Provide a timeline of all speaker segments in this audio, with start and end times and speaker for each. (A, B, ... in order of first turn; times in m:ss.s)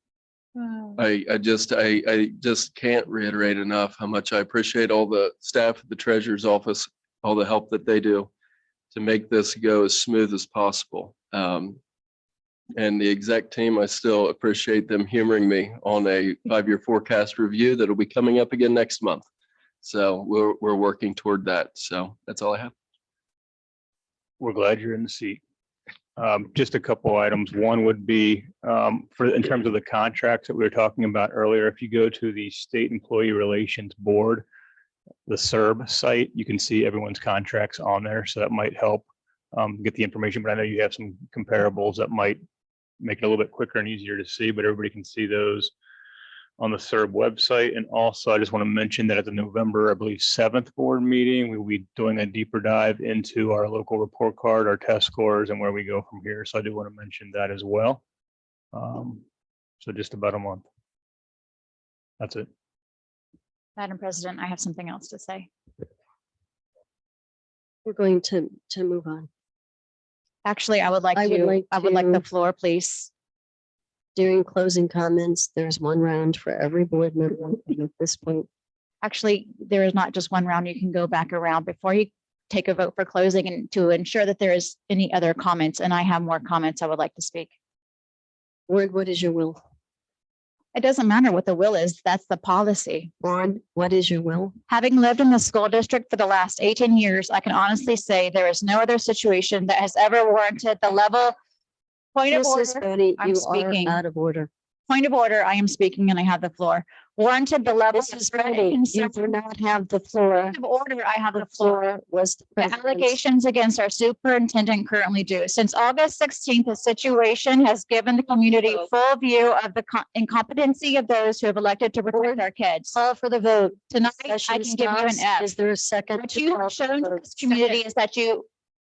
0:00.9-0:08.3 A
0:08.9-0:11.8 A
0:12.8-0:19.2 A
0:19.8-0:22.7 A
0:24.4-0:25.4 B
0:26.2-0:34.4 B
0:35.3-0:42.4 B
0:43.0-0:45.7 B
0:46.6-0:58.0 B
0:58.7-0:59.2 B
0:59.8-1:00.6 B
1:02.2-1:02.5 B
1:03.8-1:05.5 C
1:07.8-1:09.3 D
1:10.4-1:13.1 C
1:11.1-1:12.2 D
1:14.2-1:18.5 D
1:19.0-1:27.5 C
1:28.7-1:29.6 D
1:30.7-1:33.1 C
1:33.2-1:34.6 D
1:34.7-1:41.4 C
1:42.1-1:44.0 C
1:42.3-1:44.5 D
1:44.9-1:49.2 C
1:47.9-1:50.6 D
1:50.5-1:52.0 C
1:51.4-1:53.1 D
1:52.6-2:05.5 C
2:02.1-2:02.4 D
2:02.9-2:03.3 D
2:04.0-2:07.2 D
2:06.2-2:08.5 C